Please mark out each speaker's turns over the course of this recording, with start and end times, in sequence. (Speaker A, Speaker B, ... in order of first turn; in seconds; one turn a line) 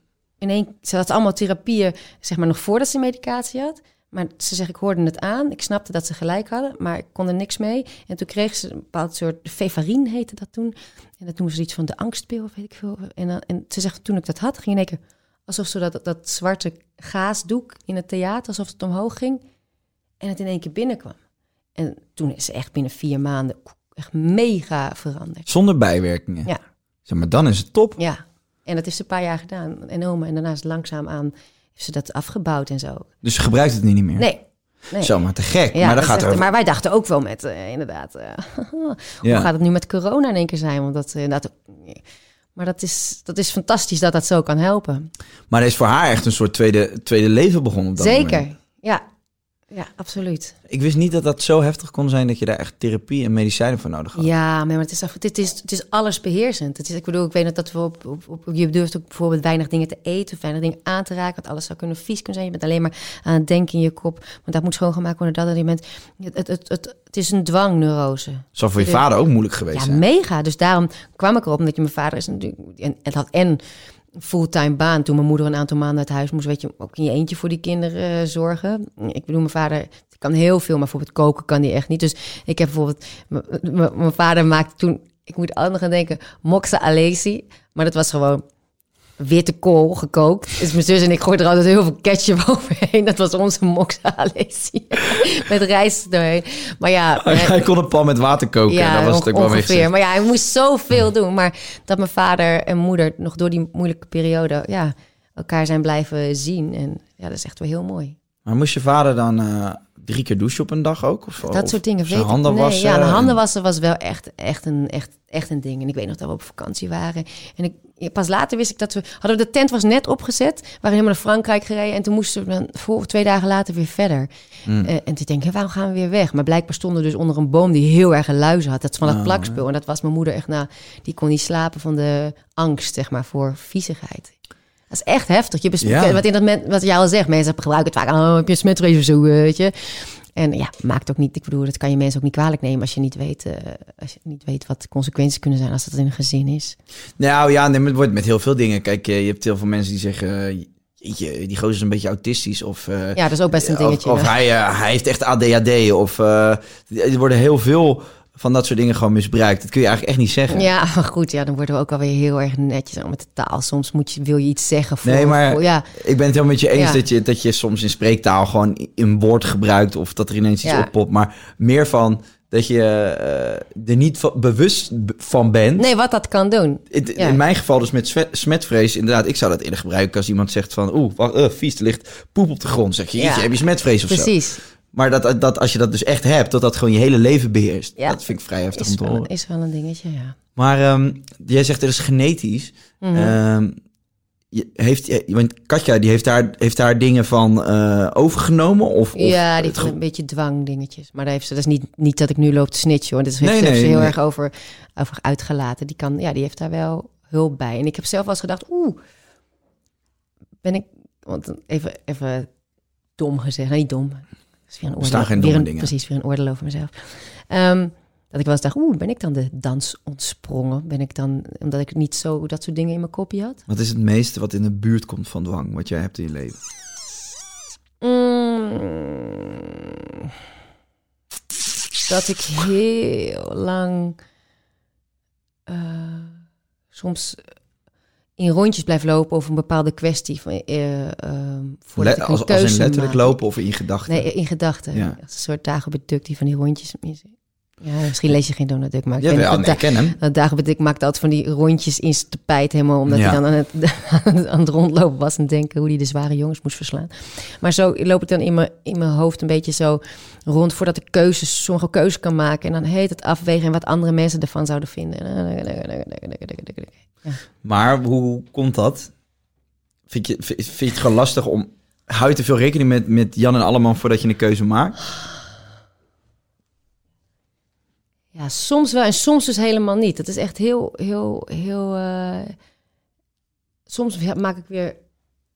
Speaker A: 0.4-19.4
Speaker A: 20.2-21.2
Speaker A: 21.8-25.5
Speaker B: 25.5-26.5
Speaker B: 27.1-28.0
Speaker A: 28.0-33.1
Speaker B: 33.2-34.3
Speaker A: 34.2-35.2
Speaker B: 35.0-36.5
Speaker A: 35.7-42.0
Speaker B: 39.2-39.5
Speaker A: 42.5-45.1
Speaker B: 45.5-48.4
Speaker A: 48.0-49.0
Speaker A: 49.7-50.5
Speaker B: 50.7-54.3
Speaker A: 54.2-69.0
Speaker B: 68.5-70.0
Speaker A: 69.7-73.6
Speaker A: 74.2-88.4
Speaker A: 89.2-97.6
Speaker B: 97.2-99.9
Speaker A: 98.7-108.2
Speaker B: 108.5-113.4
Speaker A: 111.4-124.3
Speaker B: 124.7-124.9
Speaker A: 124.8-134.3
Speaker B: 129.0-129.6
Speaker A: 134.9-146.8
Speaker B: 135.8-136.2
Speaker B: 147.2-160.7
Speaker A: 153.2-154.3
Speaker A: 160.5-165.9
Speaker B: 165.0-175.9
Speaker A: 166.8-167.0
Speaker A: 170.6-170.9
Speaker A: 175.8-177.4
Speaker B: 176.9-184.3
Speaker A: 183.2-184.6
Speaker B: 184.9-189.3
Speaker A: 188.0-190.3
Speaker B: 190.6-193.8
Speaker A: 193.0-193.3
Speaker B: 194.5-199.9
Speaker A: 199.2-209.0
Speaker B: 203.4-204.2
Speaker A: 210.6-212.5
Speaker A: 213.2-223.6
Speaker B: 214.9-215.9
Speaker B: 223.7-226.6
Speaker A: 228.0-229.5
Speaker A: 232.1-234.2
Speaker A: 235.7-236.3
Speaker A: 236.9-237.4
Speaker A: 238.4-243.3
Speaker B: 242.0-244.3
Speaker A: 244.1-247.3
Speaker B: 244.9-245.2
Speaker A: 247.8-267.4
Speaker B: 249.2-250.2
Speaker B: 253.1-253.4
Speaker B: 267.6-269.1
Speaker B: 270.1-275.0
Speaker A: 278.4-282.6
Speaker A: 283.9-285.0